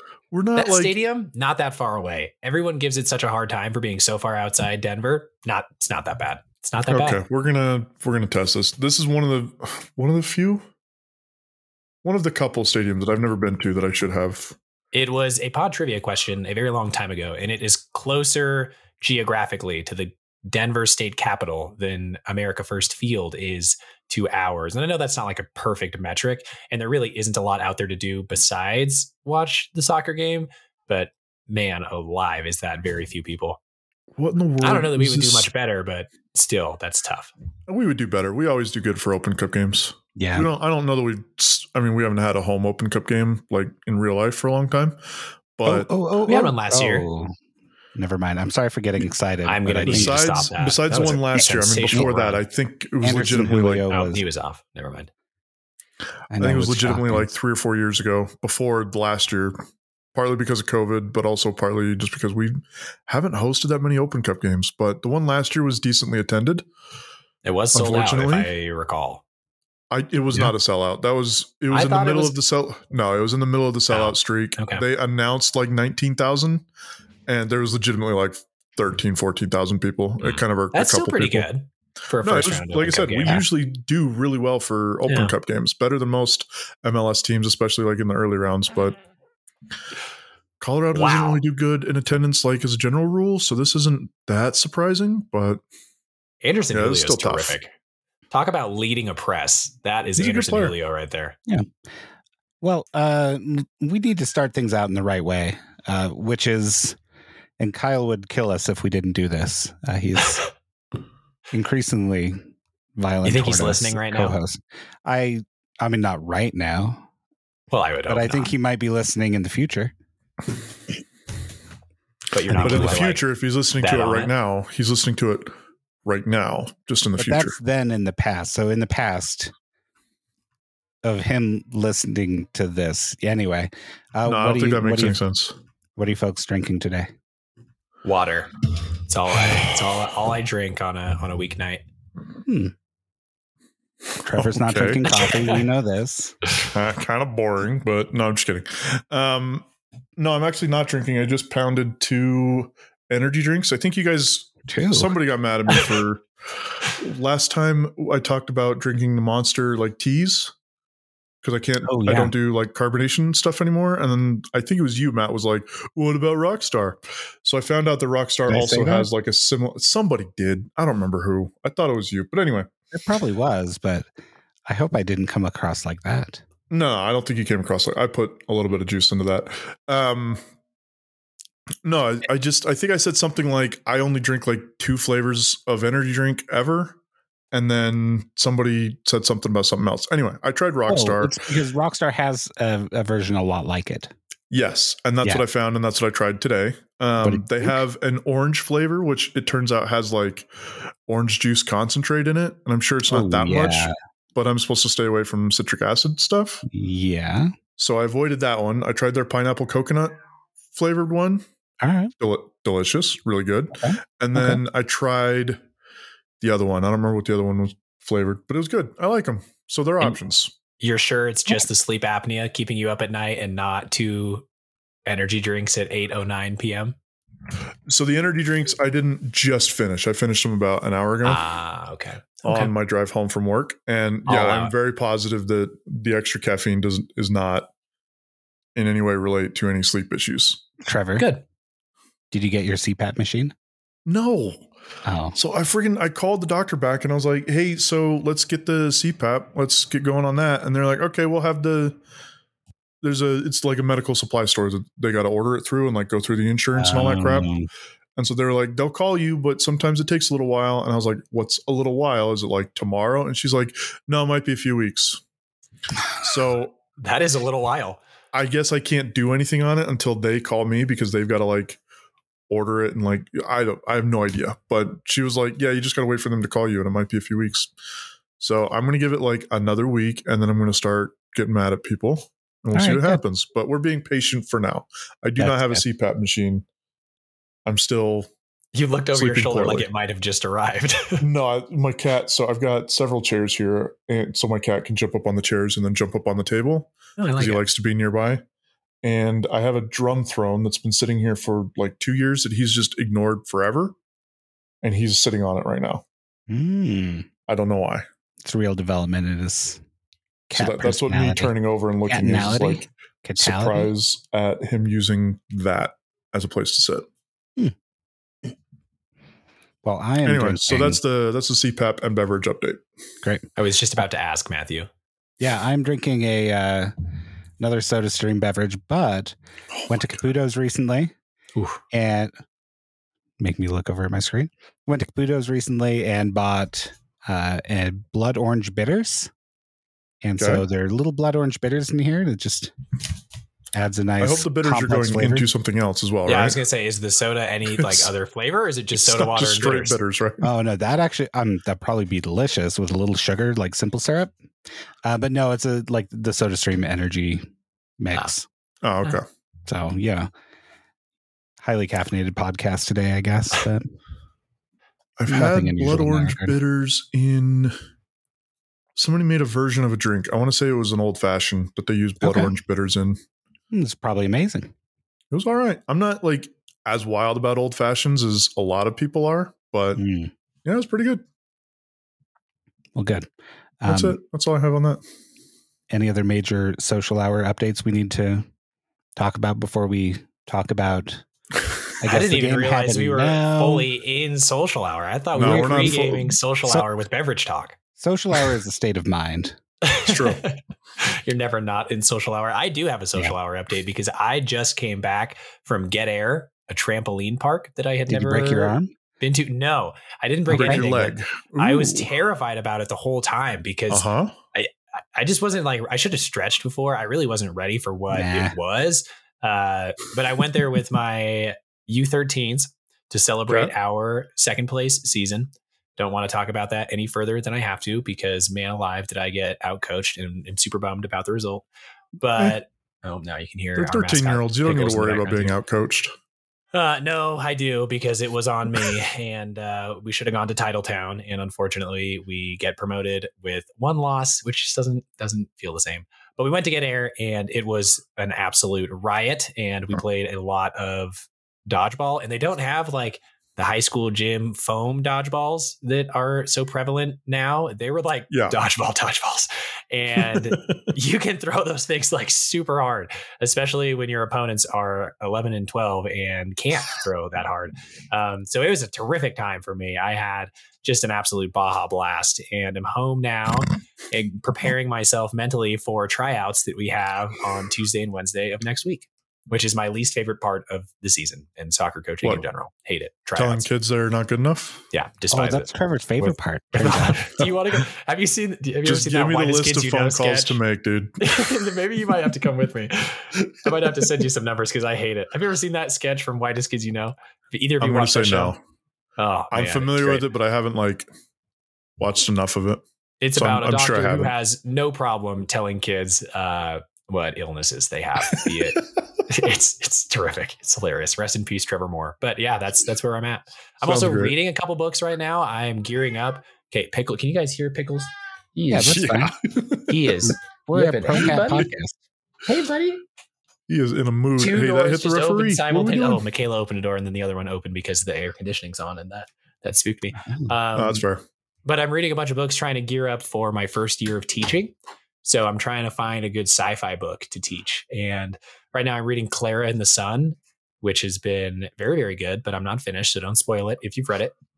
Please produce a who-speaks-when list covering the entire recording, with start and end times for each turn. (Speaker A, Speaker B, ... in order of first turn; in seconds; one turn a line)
Speaker A: 0.3-0.9
Speaker B: 0.6-7.2
Speaker A: 6.9-10.7
Speaker A: 12.0-14.6
Speaker B: 14.9-33.6
Speaker A: 34.2-35.5
Speaker B: 34.6-37.3
Speaker A: 37.7-45.0
Speaker C: 40.2-40.5
Speaker A: 45.6-45.9
Speaker C: 45.6-47.3
Speaker B: 46.2-47.1
Speaker C: 48.0-50.4
Speaker B: 49.5-52.4
Speaker A: 49.9-53.9
Speaker C: 53.0-54.2
Speaker B: 53.9-55.1
Speaker C: 56.3-57.3
Speaker A: 56.4-59.6
Speaker A: 60.1-66.7
Speaker B: 67.4-69.2
Speaker A: 67.7-68.5
Speaker A: 69.9-76.7
Speaker B: 71.7-72.4
Speaker B: 73.9-74.8
Speaker A: 77.3-81.5
Speaker B: 80.2-83.4
Speaker A: 82.2-89.0
Speaker B: 85.1-85.3
Speaker A: 90.6-95.6
Speaker B: 90.9-91.4
Speaker B: 96.4-97.7
Speaker A: 96.7-97.6
Speaker B: 98.3-101.4
Speaker A: 100.2-100.8
Speaker C: 102.6-107.0
Speaker C: 107.6-110.5
Speaker C: 111.5-112.4
Speaker C: 113.0-117.0
Speaker B: 113.2-114.4
Speaker B: 117.7-118.5
Speaker C: 118.1-119.9
Speaker B: 122.3-123.2
Speaker C: 122.5-123.0
Speaker A: 122.5-125.5
Speaker B: 123.8-124.3
Speaker A: 126.0-127.6
Speaker C: 127.2-129.5
Speaker C: 131.0-135.2
Speaker A: 134.3-135.6
Speaker C: 136.0-137.1
Speaker B: 138.0-138.5
Speaker B: 139.1-141.8
Speaker C: 142.4-142.7
Speaker C: 144.2-146.4
Speaker A: 144.3-145.3
Speaker A: 146.7-149.7
Speaker A: 150.2-156.2
Speaker C: 154.7-155.1
Speaker A: 156.9-160.5
Speaker A: 161.4-172.7
Speaker C: 161.9-162.3
Speaker C: 168.5-169.1
Speaker C: 172.9-174.1
Speaker C: 174.7-176.4
Speaker A: 176.7-180.4
Speaker A: 181.8-187.0
Speaker A: 187.5-191.4
Speaker C: 190.9-194.1
Speaker A: 194.5-200.5
Speaker C: 197.2-197.8
Speaker A: 201.1-206.6
Speaker C: 203.1-203.9
Speaker C: 206.7-207.5
Speaker A: 207.8-210.2
Speaker A: 210.7-211.4
Speaker C: 211.8-212.1
Speaker A: 212.2-215.6
Speaker C: 213.8-214.6
Speaker A: 216.4-220.5
Speaker B: 220.8-224.4
Speaker B: 225.1-227.0
Speaker A: 227.9-231.5
Speaker B: 231.2-232.7
Speaker A: 232.4-237.7
Speaker B: 234.3-234.7
Speaker A: 238.8-240.6
Speaker C: 240.8-241.2
Speaker B: 241.2-241.4
Speaker C: 242.3-243.5
Speaker A: 244.1-244.7
Speaker C: 245.1-245.4
Speaker A: 245.4-252.0
Speaker A: 253.0-257.5
Speaker C: 256.7-257.7
Speaker A: 258.2-265.2
Speaker A: 266.2-266.7
Speaker B: 267.0-268.0
Speaker A: 268.3-271.8
Speaker A: 272.5-277.7
Speaker A: 278.4-286.7
Speaker C: 282.7-283.2
Speaker C: 285.4-285.8
Speaker A: 287.7-288.3
Speaker B: 288.7-291.2
Speaker A: 289.2-289.9
Speaker A: 291.2-298.4
Speaker B: 297.2-297.6
Speaker A: 299.0-303.9
Speaker A: 304.8-306.0
Speaker C: 306.5-307.3
Speaker A: 307.5-308.1
Speaker C: 308.4-309.8
Speaker C: 310.5-311.5
Speaker A: 310.5-312.9
Speaker C: 312.1-313.9
Speaker A: 313.4-317.1
Speaker C: 319.8-321.0
Speaker A: 320.2-322.8
Speaker B: 323.6-324.9
Speaker C: 325.4-326.9
Speaker C: 327.6-329.4
Speaker A: 329.8-330.1
Speaker C: 329.9-331.1
Speaker C: 331.9-332.3
Speaker C: 333.4-339.3
Speaker C: 340.2-342.7
Speaker A: 340.4-340.6
Speaker C: 343.7-345.5
Speaker A: 344.2-346.6
Speaker B: 346.3-350.0
Speaker A: 347.8-348.1
Speaker A: 348.9-350.5
Speaker C: 350.4-354.3
Speaker C: 355.1-357.4
Speaker C: 358.0-358.5
Speaker A: 358.8-359.2
Speaker C: 359.7-360.3
Speaker C: 361.6-363.9
Speaker A: 365.2-367.8
Speaker C: 365.3-366.6
Speaker A: 369.0-373.2
Speaker C: 372.2-372.5
Speaker C: 373.7-374.7
Speaker A: 375.3-380.0
Speaker C: 380.0-380.3
Speaker A: 380.6-381.2
Speaker C: 382.9-383.3
Speaker C: 383.8-384.2
Speaker A: 383.9-385.0
Speaker C: 385.9-388.5
Speaker C: 389.2-391.2
Speaker C: 392.0-393.9
Speaker B: 392.1-397.8
Speaker A: 395.4-396.4
Speaker C: 395.4-396.0
Speaker C: 398.0-399.6
Speaker B: 399.8-431.7
Speaker A: 400.1-400.4
Speaker C: 408.1-408.9
Speaker A: 410.5-412.1
Speaker C: 410.6-410.9
Speaker A: 413.9-414.4
Speaker C: 418.1-418.6
Speaker A: 423.5-423.7
Speaker B: 432.2-435.5
Speaker A: 433.8-436.1
Speaker B: 436.7-483.7
Speaker A: 458.3-458.6
Speaker A: 460.5-460.8
Speaker A: 483.4-484.8
Speaker B: 484.9-490.6
Speaker C: 485.3-487.2
Speaker A: 488.9-491.3
Speaker B: 491.2-498.6
Speaker A: 497.8-498.6
Speaker B: 499.2-500.2
Speaker A: 499.5-501.1
Speaker A: 502.0-502.8
Speaker B: 503.2-519.0
Speaker A: 503.4-504.3
Speaker A: 513.8-514.3
Speaker C: 518.7-519.4
Speaker A: 518.9-520.1
Speaker B: 519.9-521.7
Speaker C: 520.7-522.0
Speaker B: 522.5-523.0
Speaker A: 523.7-526.2
Speaker B: 524.4-531.0
Speaker C: 530.2-530.5
Speaker A: 530.8-531.2
Speaker B: 531.7-544.3